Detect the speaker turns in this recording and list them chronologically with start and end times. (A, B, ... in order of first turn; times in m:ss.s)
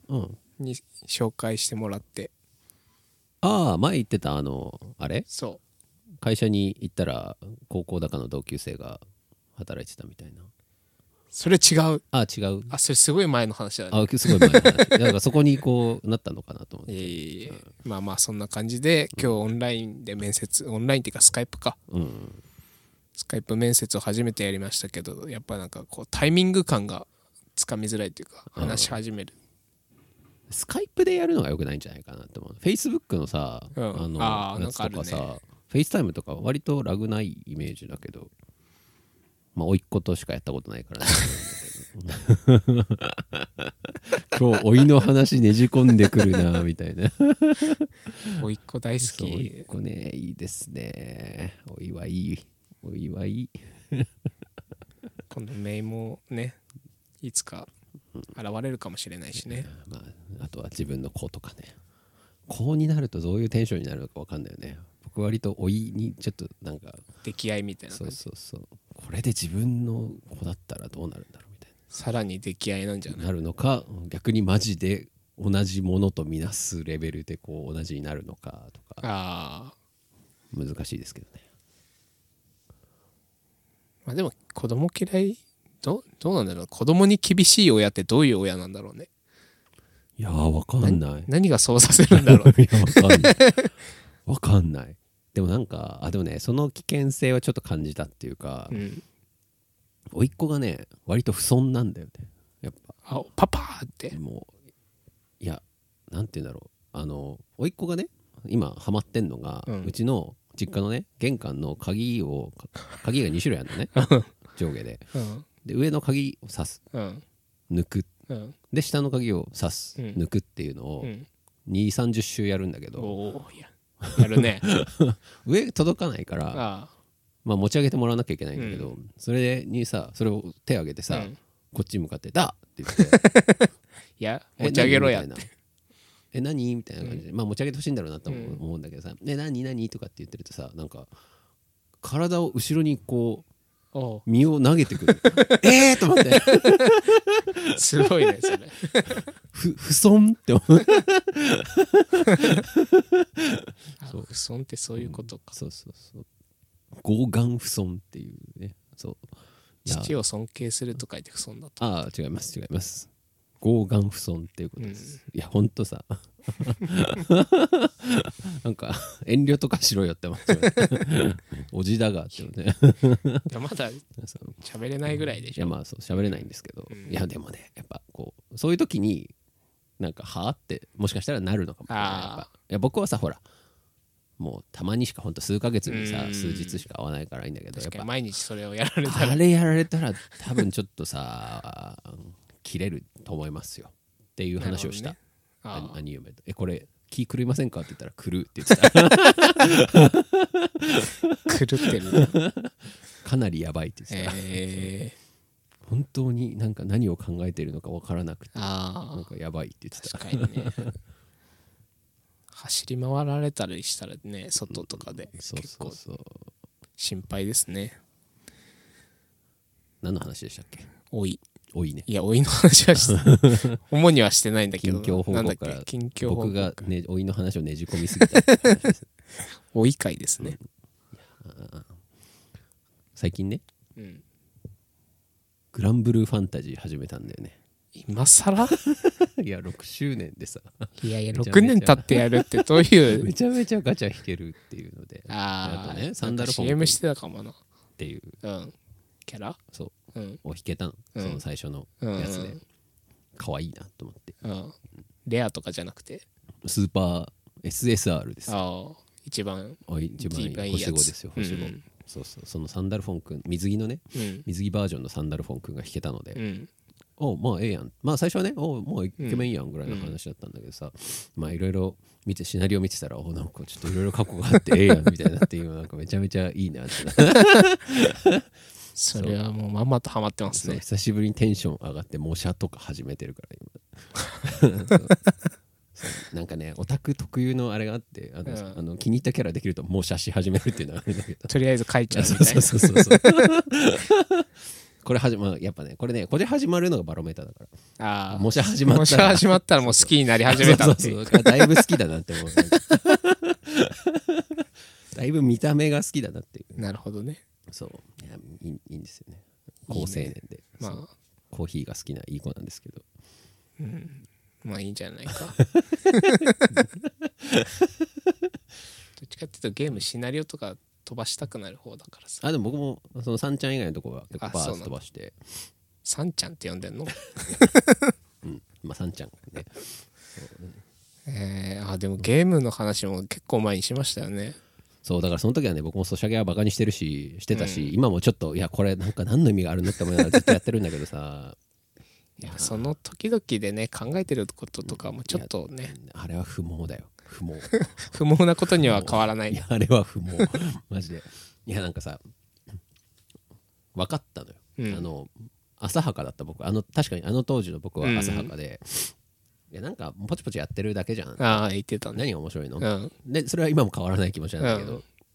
0:00.1-0:00.4 A
0:00.6-0:02.3 B
0:03.4-0:05.2 A
0:05.3-0:05.6 B
0:06.2-0:09.0 A
0:09.6-0:10.5 A
0:11.3-0:12.0 B
0:12.1-0:12.7 A
0:12.7-0:15.0 B
0:13.9-0:17.7 A
0:16.9-0:21.8 B
0:21.9-0:22.4 A
0:23.2-0:29.3 B
0:28.5-0:29.0 A
0:30.5-0:38.3 A
0:33.7-0:35.3 B
0:39.5-0:48.4 A
0:48.4-0:49.6 B
0:49.0-0:54.1 A
0:55.3-0:56.6 B
0:57.2-0:57.7 B
0:58.3-0:59.7 B
0:59.4-1:01.8 A
1:02.5-1:07.0 A
1:07.2-1:08.2 B
1:07.9-1:11.7 A
1:11.9-1:13.3 B
1:13.1-1:19.0 A
1:19.0-1:19.7 B
1:20.5-1:21.4 A
1:24.0-1:29.1 B
1:30.2-1:31.3 A
1:30.8-1:33.7 B
1:32.1-1:33.4 A
1:34.2-1:38.8 A
1:38.7-1:39.0 B
1:40.1-1:43.0 A
1:43.0-1:44.2 B
1:44.1-1:44.5 A
1:45.4-1:53.9 A
1:49.7-1:49.9 B
1:53.9-1:54.3 B
1:54.5-1:55.1 A
1:55.1-1:55.4 B
1:55.6-1:56.8 A
1:56.9-1:57.2 B
1:57.7-1:58.1 A
1:58.3-1:58.6 B
1:58.7-2:01.1 A
2:01.0-2:01.3 B
2:01.6-2:03.2 A
2:03.0-2:04.6 B
2:04.0-2:06.6 A
2:06.5-2:06.9 B
2:07.4-2:13.2 A
2:08.6-2:08.9 B
2:11.1-2:11.4 B
2:12.9-2:15.5 B
2:14.6-2:15.5 A
2:16.3-2:21.1 A
2:18.3-2:18.6 B
2:22.0-2:23.4 A
2:23.9-2:24.2 B
2:24.2-2:28.0 A
2:25.2-2:26.9 B
2:27.7-2:29.3 B
2:29.5-2:34.3 A
2:34.0-2:35.5 B
2:35.0-2:36.2 A
2:37.0-2:39.3 A
2:39.8-2:40.2 A
2:39.8-2:41.8 B
2:41.8-2:43.1 A
2:43.6-2:53.5 A
2:44.8-2:45.2 B
2:50.6-2:51.0 B
2:53.5-2:54.0 B
2:54.2-2:54.6 A
2:54.6-2:57.2 B
2:55.5-2:59.3 A
3:00.0-3:03.4 A
3:01.9-3:02.5 B
3:04.4-3:08.1 A
3:05.9-3:06.8 B
3:07.8-3:09.4 B
3:09.0-3:15.2 A
3:14.6-3:16.0 B
3:15.7-3:24.9 A
3:21.5-3:22.4 B
3:24.1-3:25.2 B
3:25.9-3:30.9 A
3:28.5-3:29.3 B
3:30.0-3:30.8 B
3:32.5-3:36.0 B
3:34.7-3:36.5 A
3:37.0-3:38.0 B
3:40.0-3:40.9 A
3:41.1-3:41.4 B
3:41.7-3:42.1 A
3:42.1-3:46.8 B
3:43.0-3:43.8 A
3:44.8-3:49.1 A
3:48.1-3:48.8 B
3:49.4-3:50.6 B
3:51.2-3:51.9 A
3:53.2-3:53.6 A
3:54.0-3:54.2 B
3:55.7-3:57.6 A
3:57.9-3:58.8 B
3:58.6-4:07.0 A
4:01.0-4:03.3 B
4:05.3-4:07.6 B
4:08.0-4:08.4 A
4:08.4-4:08.7 B
4:09.2-4:09.6 B
4:09.7-4:12.6 A
4:10.1-4:10.4 B
4:11.2-4:11.4 B
4:12.0-4:12.6 B
4:13.4-4:14.4 A
4:14.4-4:16.2 B
4:16.6-4:18.6 A
4:18.5-4:21.8 B
4:19.8-4:26.4 A
4:24.1-4:24.4 B
4:26.4-4:26.7 B
4:27.2-4:38.4 A
4:29.2-4:30.2 B
4:39.0-4:40.8 B
4:39.1-4:39.4 A
4:40.5-4:45.2 A
4:46.0-4:51.6 A
4:48.4-4:48.8 B
4:51.5-4:53.4 B
4:52.1-4:54.5 A
4:55.0-4:57.7 A
4:58.0-5:01.9 B
4:58.3-5:06.8 A
5:06.8-5:07.4 B
5:07.7-5:13.0 A
5:09.9-5:11.1 B
5:13.8-5:15.6 B
5:16.1-5:16.7 B
5:16.7-5:17.8 A
5:19.2-5:22.4 B
5:22.4-5:25.4 A
5:24.4-5:24.9 B
5:26.0-5:28.1 B
5:28.4-5:30.8 A
5:31.2-5:34.6 B
5:35.0-5:41.6 A
5:37.5-5:37.9 B
5:42.4-5:45.9 B
5:42.4-5:42.9 A
5:44.8-5:48.2 A
5:48.0-5:49.6 B
5:48.7-5:52.2 A
5:53.9-5:59.1 A
5:54.8-5:55.0 B
5:58.0-5:58.5 B
5:59.7-6:05.0 A
6:01.4-6:02.2 B
6:02.8-6:03.1 B
6:04.6-6:05.0 B